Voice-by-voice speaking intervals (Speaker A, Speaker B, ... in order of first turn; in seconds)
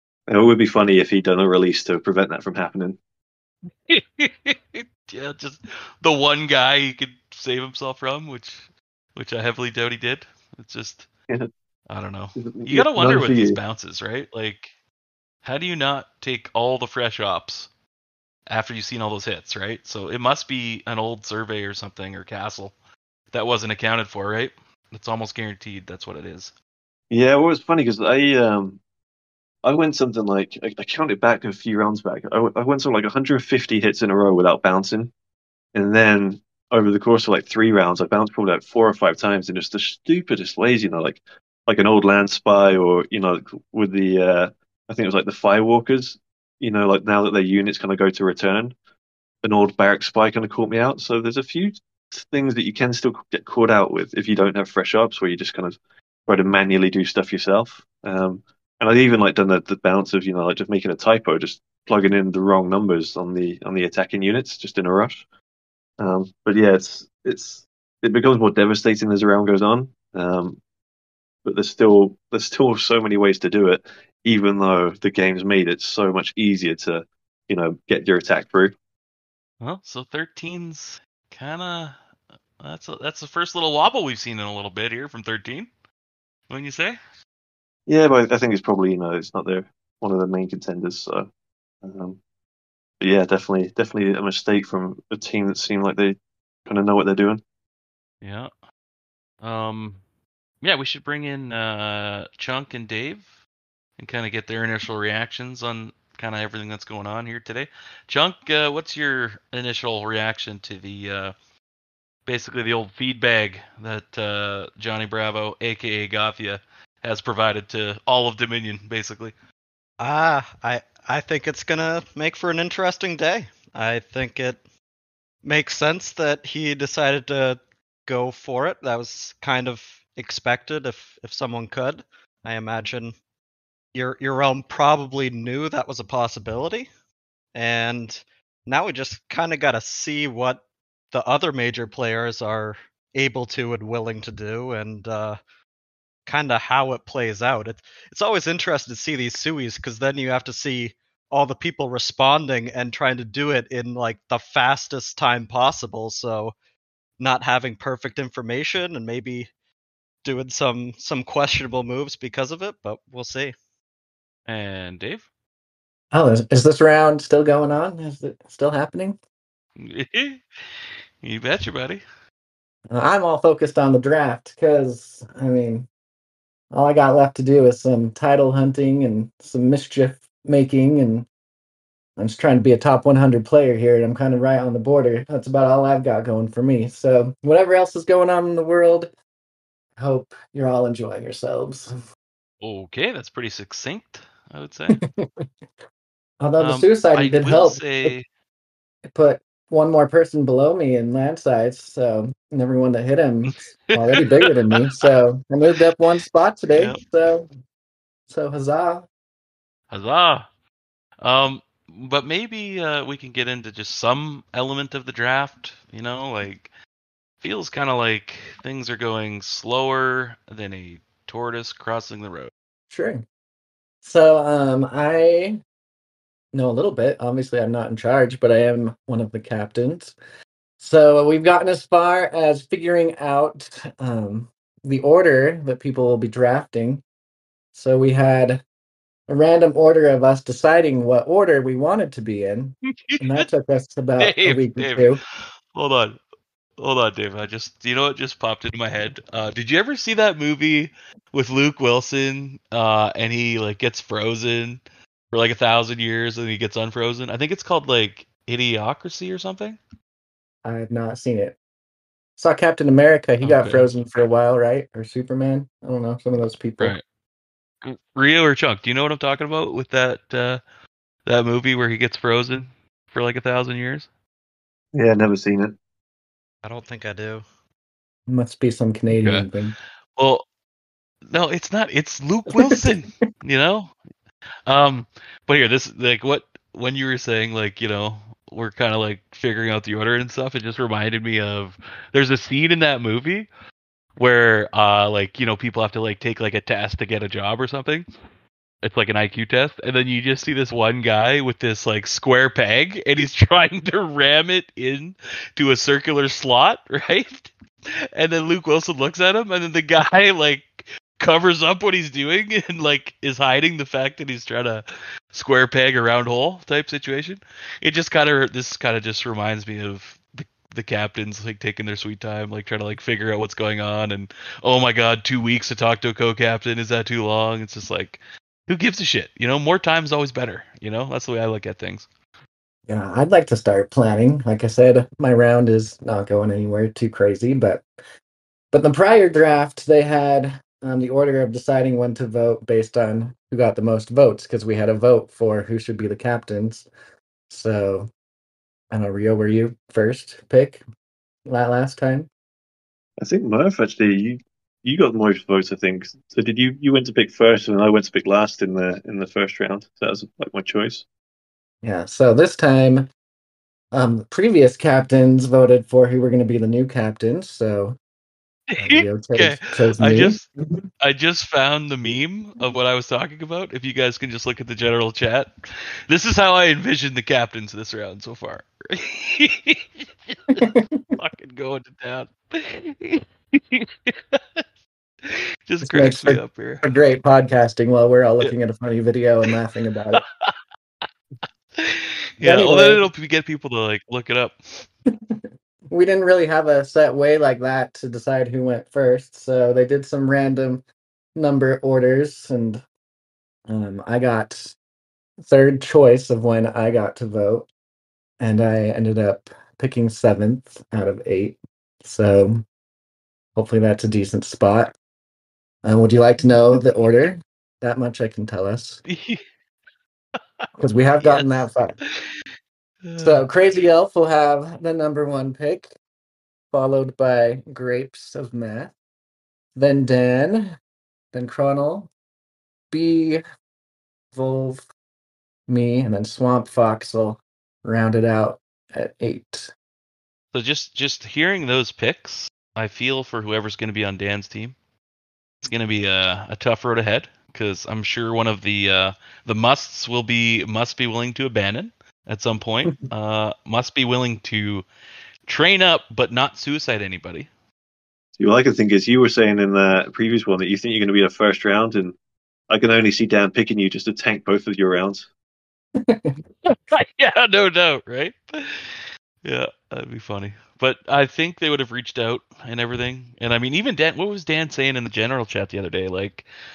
Speaker A: 0.3-3.0, 12.3-13.6, 27.1-28.8, 29.6-35.1, 35.7-48.7, 49.4-65.2, 66.0-70.6, 71.4-78.7, 87.9-91.3, 91.8-92.2, 93.0-97.4, 274.9-275.7, 353.2-361.0, 458.4-462.1, 462.7-465.3
Speaker B: 3.9-11.1, 11.9-14.7, 15.4-17.7, 18.5-22.7, 23.3-26.5, 79.6-82.0, 82.6-85.7, 86.5-87.0, 98.2-98.5, 99.4-100.0, 100.6-103.3, 104.0-111.3, 112.2-119.3, 164.5-165.2, 169.8-172.0, 192.6-195.0, 196.6-198.2, 203.5-205.1, 206.7-207.0, 209.9-210.4, 211.2-216.7, 217.4-222.5, 243.1-243.5, 244.2-245.1, 245.7-246.2, 246.8-259.8, 263.4-263.9, 267.8-270.6, 271.2-274.1, 279.1-279.5, 280.1-280.4, 281.3-283.9, 284.7-293.5, 294.2-298.1, 298.8-307.5, 308.1-332.1, 368.7-370.4, 371.0-375.5, 376.1-384.6, 385.2-386.8, 391.8-394.8, 419.1-419.4, 421.2-422.4, 423.0-423.5, 440.5-444.7, 445.6-454.9, 455.4-457.5, 466.6-476.4
Speaker C: 120.0-124.6, 125.4-133.1, 133.9-136.9, 137.5-145.4, 146.2-156.5, 157.2-159.5, 160.2-163.5, 276.6-277.4
Speaker D: 166.1-169.2, 172.9-175.9, 176.7-181.3, 182.2-189.1, 190.0-191.9, 194.9-195.4, 196.4-198.1, 199.1-207.5, 208.3-209.1, 222.9-223.2, 224.0-225.6, 226.5-230.1, 230.8-237.0, 237.7-238.6, 239.3-245.2, 260.6-261.6, 262.4-266.9, 278.3-279.7, 282.5-282.9, 332.9-337.8, 338.7-346.9, 347.5-348.1, 348.9-350.8, 351.4-352.3, 361.8-363.1, 363.9-368.0, 368.8-370.8, 380.6-381.0, 385.8-390.2, 392.4-393.0, 395.3-400.8, 401.3-402.8, 403.7-404.7, 405.4-407.7, 408.4-412.6, 413.6-414.9, 415.8-419.0, 420.8-422.0, 423.2-425.9, 426.7-428.9, 429.7-430.8, 431.3-432.1, 432.9-433.4, 434.3-434.8, 435.7-439.7, 465.9-466.3